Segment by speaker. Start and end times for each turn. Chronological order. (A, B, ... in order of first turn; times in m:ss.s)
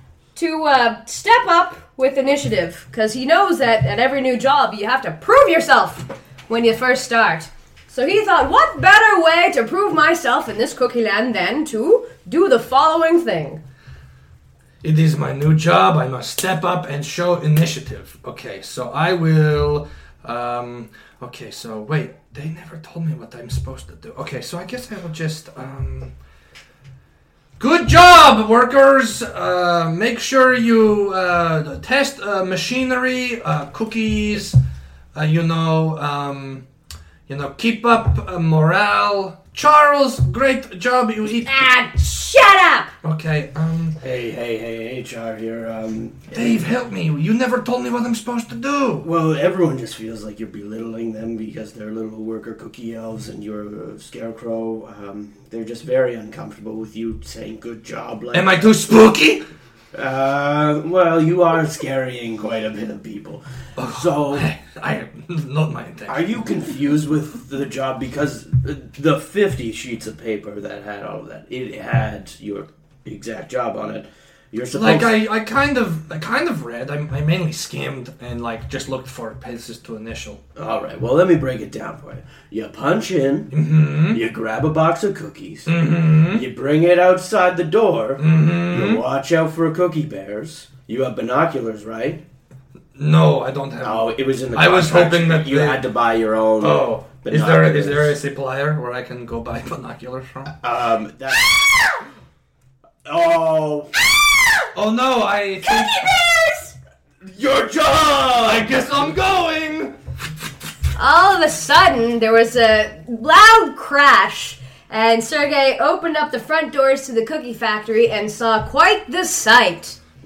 0:00.4-0:13.6 A
0:14.8-0:26.1 B
0:27.6-0:34.6 B
0:35.1-0:36.6 B
0:37.3-0:41.5 B
0:41.5-0:42.9 A
0:43.0-0:44.0 B
0:44.0-0:46.6 C
0:46.3-0:49.1 B
0:49.0-0:58.8 C
0:58.3-0:59.4 B
0:59.9-1:04.5 C
1:03.8-1:06.3 B
1:06.1-1:15.2 C
1:14.7-1:20.4 B
1:20.6-1:23.5 C
1:23.5-1:24.2 B
1:24.1-1:32.2 C
1:25.7-1:26.4 B
1:28.2-1:29.0 B
1:33.0-1:35.8 B
1:33.8-1:38.2 C
1:36.6-1:40.6 B
1:40.6-1:41.6 C
1:43.0-1:44.0 C
1:44.8-1:46.0 B
1:45.6-1:46.7 A
1:47.2-1:48.8 C
1:48.4-1:50.0 B
1:51.0-2:00.0 A